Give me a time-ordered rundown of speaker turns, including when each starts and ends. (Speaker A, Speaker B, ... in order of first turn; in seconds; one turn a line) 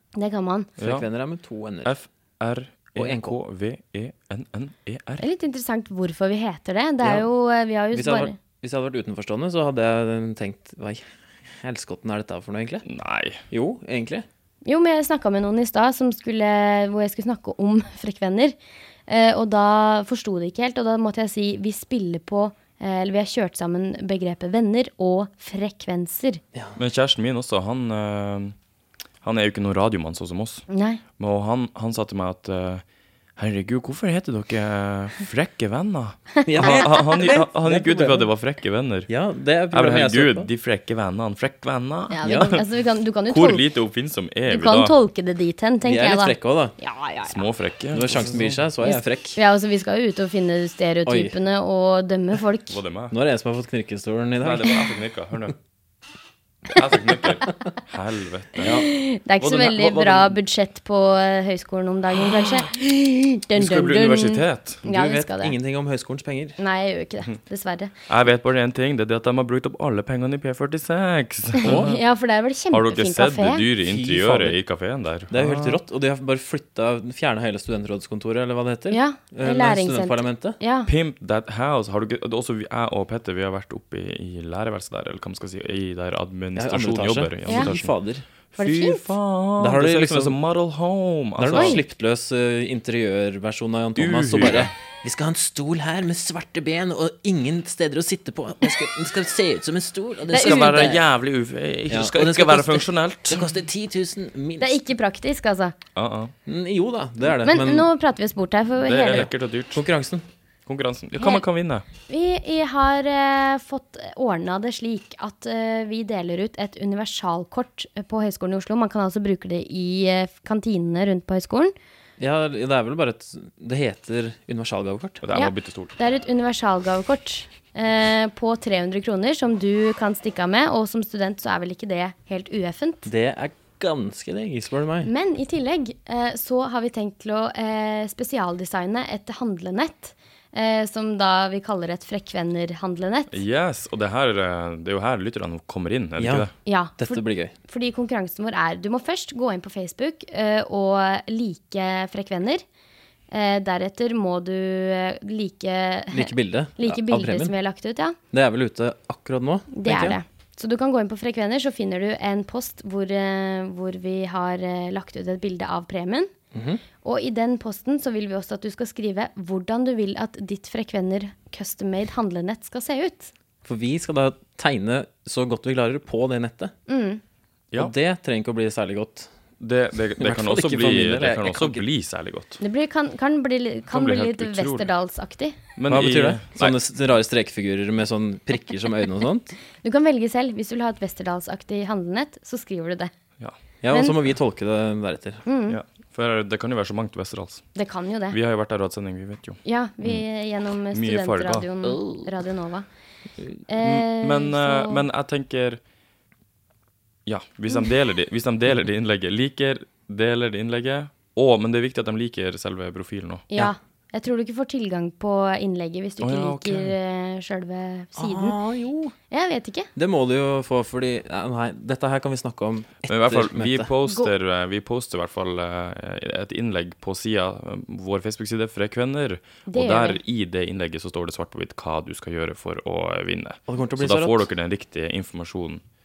Speaker A: 0.1-0.7
Speaker B: 0.8-1.1
Speaker C: 0.8-1.9
Speaker B: 1.8-5.2
Speaker C: 3.0-3.4
Speaker A: 5.2-8.3
Speaker C: 7.0-7.3
Speaker C: 7.9-12.8
Speaker B: 12.8-13.4
Speaker C: 13.5-14.3
Speaker A: 14.6-18.6
Speaker A: 19.1-26.4
Speaker B: 26.8-28.5
Speaker B: 29.2-30.6
Speaker A: 30.7-31.0
Speaker B: 31.2-32.8
Speaker B: 33.4-39.1
Speaker A: 36.4-36.8
Speaker C: 36.5-38.3
Speaker C: 39.1-40.5
Speaker B: 39.7-42.6
Speaker A: 42.1-43.6
Speaker C: 42.2-42.5
Speaker B: 43.3-44.9
Speaker A: 44.5-47.4
Speaker C: 45.8-46.7
Speaker B: 47.2-48.6
Speaker C: 47.9-49.4
Speaker A: 48.8-52.8
Speaker C: 51.0-51.4
Speaker B: 52.7-53.1
Speaker C: 53.1-54.9
Speaker B: 54.4-55.5
Speaker B: 56.7-58.8
Speaker C: 58.6-58.9
Speaker A: 58.7-65.5
Speaker B: 59.4-60.4
Speaker B: 63.5-64.8
Speaker C: 64.8-66.6
Speaker A: 66.6-67.9
Speaker B: 68.1-72.0
Speaker A: 71.6-73.6
Speaker C: 71.6-72.0
Speaker B: 72.7-75.8
Speaker C: 73.8-74.6
Speaker C: 75.3-80.6
Speaker A: 78.9-80.9
Speaker B: 80.8-87.9
Speaker C: 86.5-88.2
Speaker B: 88.5-91.8
Speaker A: 88.6-89.0
Speaker C: 89.6-90.4
Speaker C: 91.4-101.0
Speaker A: 91.5-91.8
Speaker B: 94.0-94.7
Speaker A: 100.3-100.9
Speaker B: 100.3-103.5
Speaker C: 101.9-104.8
Speaker A: 104.6-105.7
Speaker B: 105.9-106.3
Speaker C: 106.5-107.9
Speaker A: 107.4-109.2
Speaker B: 108.8-109.8
Speaker C: 109.1-110.3
Speaker B: 110.7-111.8
Speaker A: 111.2-111.4
Speaker A: 112.1-121.7
Speaker C: 122.2-125.2
Speaker B: 125.2-126.0
Speaker A: 125.3-133.1
Speaker C: 133.1-135.1
Speaker A: 135.0-143.4
Speaker B: 143.3-146.5
Speaker C: 146.2-147.5
Speaker A: 146.7-152.6
Speaker A: 153.3-158.2
Speaker C: 156.1-157.5
Speaker C: 158.3-160.2
Speaker A: 159.7-166.3
Speaker C: 166.5-166.8
Speaker A: 167.0-173.3
Speaker C: 173.6-176.7
Speaker A: 176.9-177.2
Speaker C: 177.8-179.3
Speaker B: 179.6-182.6
Speaker C: 180.2-181.8
Speaker A: 182.6-185.6
Speaker B: 183.9-184.9
Speaker B: 185.8-186.8
Speaker C: 185.9-189.6
Speaker A: 189.8-193.1
Speaker C: 193.8-195.4
Speaker A: 193.9-194.2
Speaker A: 195.4-195.8
Speaker B: 195.7-197.7
Speaker A: 197.8-198.4
Speaker B: 198.3-200.2
Speaker A: 199.6-202.8
Speaker B: 200.9-201.7
Speaker C: 201.9-202.2
Speaker A: 203.7-205.0
Speaker B: 203.8-205.8
Speaker B: 207.2-213.5
Speaker A: 213.5-218.6
Speaker B: 216.2-216.9
Speaker C: 218.2-219.1
Speaker A: 219.3-219.9
Speaker C: 219.9-223.9
Speaker B: 223.1-235.8
Speaker A: 229.7-230.2
Speaker C: 233.7-234.5